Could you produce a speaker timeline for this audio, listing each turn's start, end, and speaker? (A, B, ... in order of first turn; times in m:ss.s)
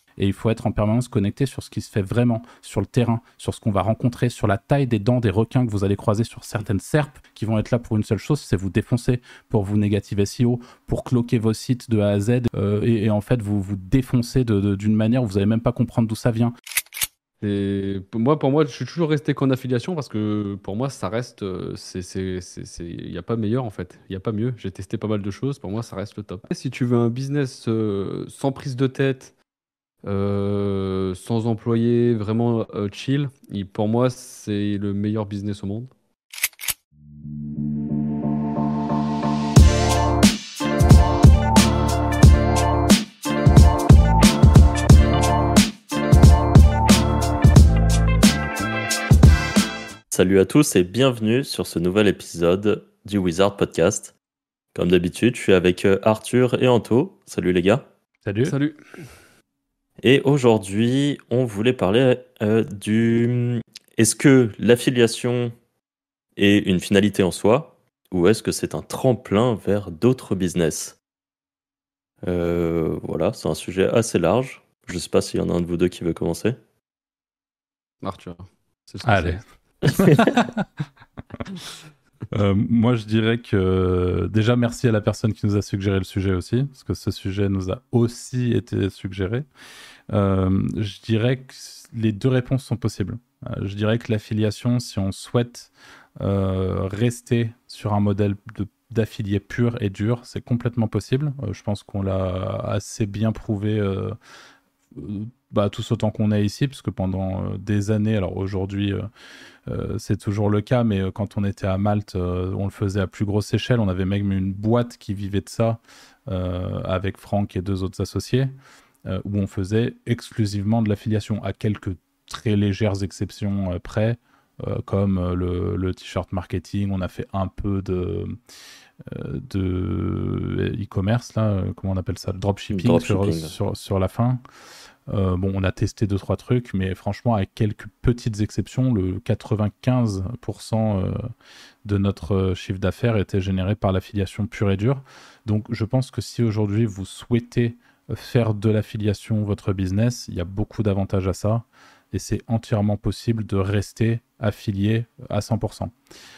0:00.2-0:16.5 A
0:17.4-0:29.3 B
0:30.0-0:35.9 B
0:50.1-0:54.1 C
0:54.8-0:57.9 C
0:58.2-0:58.6 A
0:58.4-0:58.8 B
1:00.0-1:05.5 C
1:06.4-1:11.0 C
1:12.2-1:16.6 C
1:18.0-1:20.0 B
1:19.0-1:20.7 A
1:22.3-1:29.5 A
1:30.1-1:44.2 A
1:44.9-1:49.1 A
1:49.7-1:58.5 A
1:59.1-2:08.4 A
2:09.0-2:14.4 A
2:12.7-2:13.6 C
2:15.1-2:21.3 A
2:21.8-2:35.9 A